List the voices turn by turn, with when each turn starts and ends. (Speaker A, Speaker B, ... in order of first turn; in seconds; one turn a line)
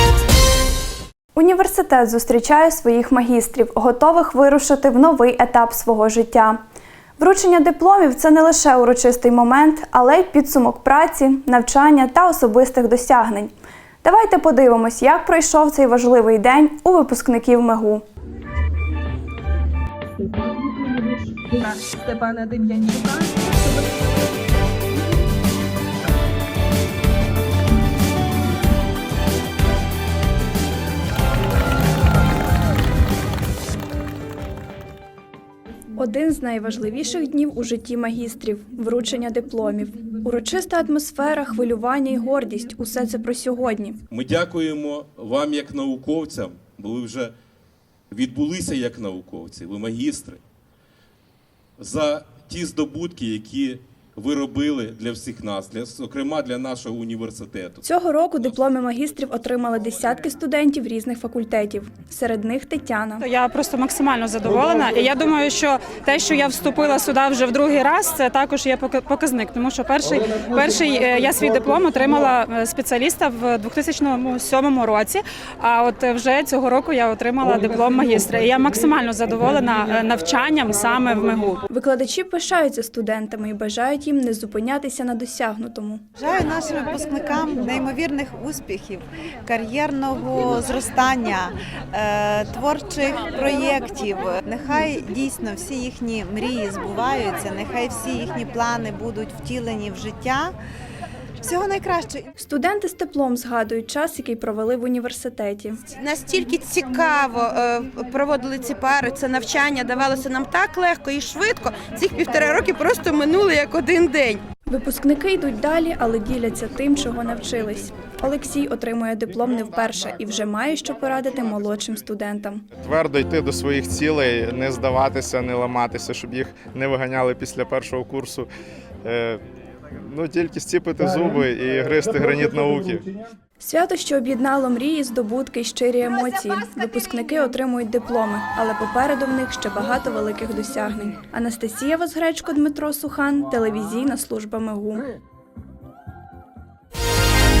Speaker A: 1.3-6.6
Speaker A: 7.2-13.5
Speaker A: 14.0-18.0
Speaker B: 22.1-23.0
Speaker A: 36.0-44.0
Speaker C: 44.1-47.3
Speaker C: 48.1-50.4
Speaker C: 51.8-57.8
Speaker A: 57.8-63.2
Speaker D: 63.2-81.6
Speaker A: 81.7-86.0
Speaker E: 86.2-100.5
Speaker E: 101.4-102.2
Speaker A: 102.4-105.8
Speaker B: 106.5-107.0
Speaker B: 108.2-110.4
Speaker B: 111.1-112.3
Speaker A: 114.7-122.6
Speaker F: 122.8-128.5
Speaker F: 129.0-129.4
Speaker F: 130.0-133.1
Speaker A: 133.6-145.0